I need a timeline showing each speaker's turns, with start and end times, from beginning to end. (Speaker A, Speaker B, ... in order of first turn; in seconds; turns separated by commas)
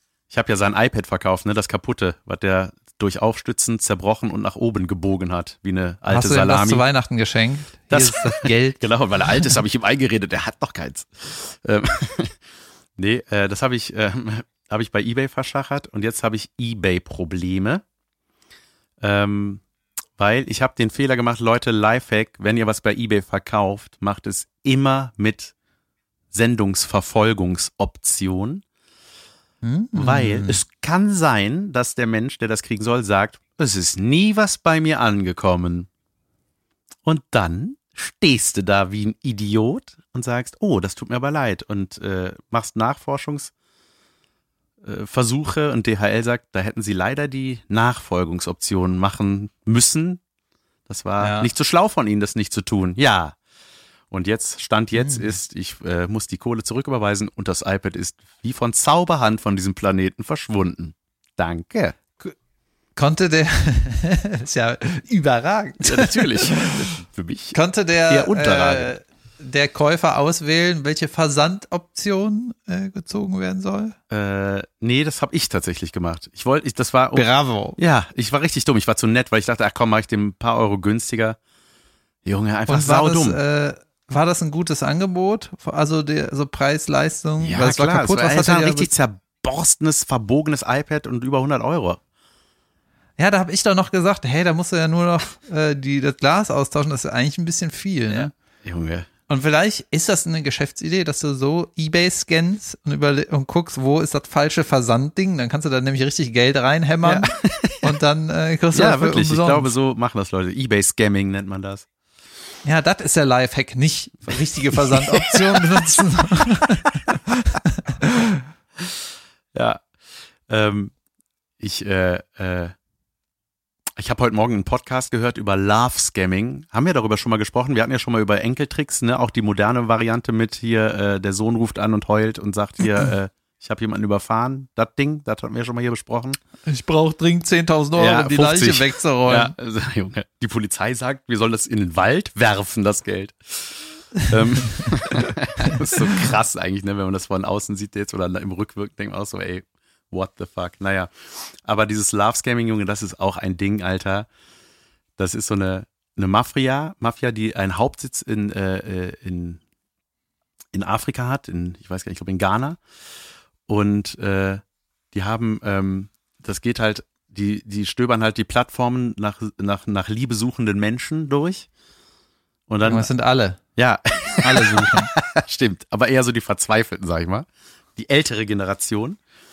Speaker A: 0.3-6.8, Speaker B: 6.1-9.6, Speaker A: 7.9-12.3, Speaker A: 13.0-17.8, Speaker A: 19.0-19.6, Speaker A: 20.2-25.5, Speaker A: 26.3-28.6, Speaker B: 29.6-30.6, Speaker A: 29.9-35.9, Speaker A: 37.0-43.5, Speaker A: 44.8-50.2, Speaker A: 50.9-53.4, Speaker B: 51.2-51.5, Speaker A: 54.1-62.0, Speaker B: 55.0-55.3, Speaker B: 63.0-66.8, Speaker A: 65.8-68.9, Speaker B: 67.5-73.9, Speaker A: 74.1-81.4, Speaker B: 77.1-77.8, Speaker A: 82.2-83.4, Speaker B: 82.7-88.9, Speaker A: 87.4-92.0, Speaker B: 93.2-98.3, Speaker A: 98.1-99.1, Speaker B: 99.3-109.7, Speaker A: 107.0-107.9, Speaker A: 108.7-111.8, Speaker B: 112.6-118.4, Speaker A: 114.9-115.6, Speaker A: 119.5-119.8, Speaker A: 120.5-120.9, Speaker A: 121.6-122.7, Speaker A: 124.0-136.4, Speaker B: 136.7-139.5, Speaker A: 137.9-154.3, Speaker B: 144.8-145.2, Speaker B: 145.7-146.0, Speaker A: 155.2-159.6, Speaker A: 160.7-162.8, Speaker A: 163.7-171.7, Speaker A: 172.7-173.1, Speaker B: 172.8-173.6, Speaker A: 173.8-179.2, Speaker B: 174.4-175.1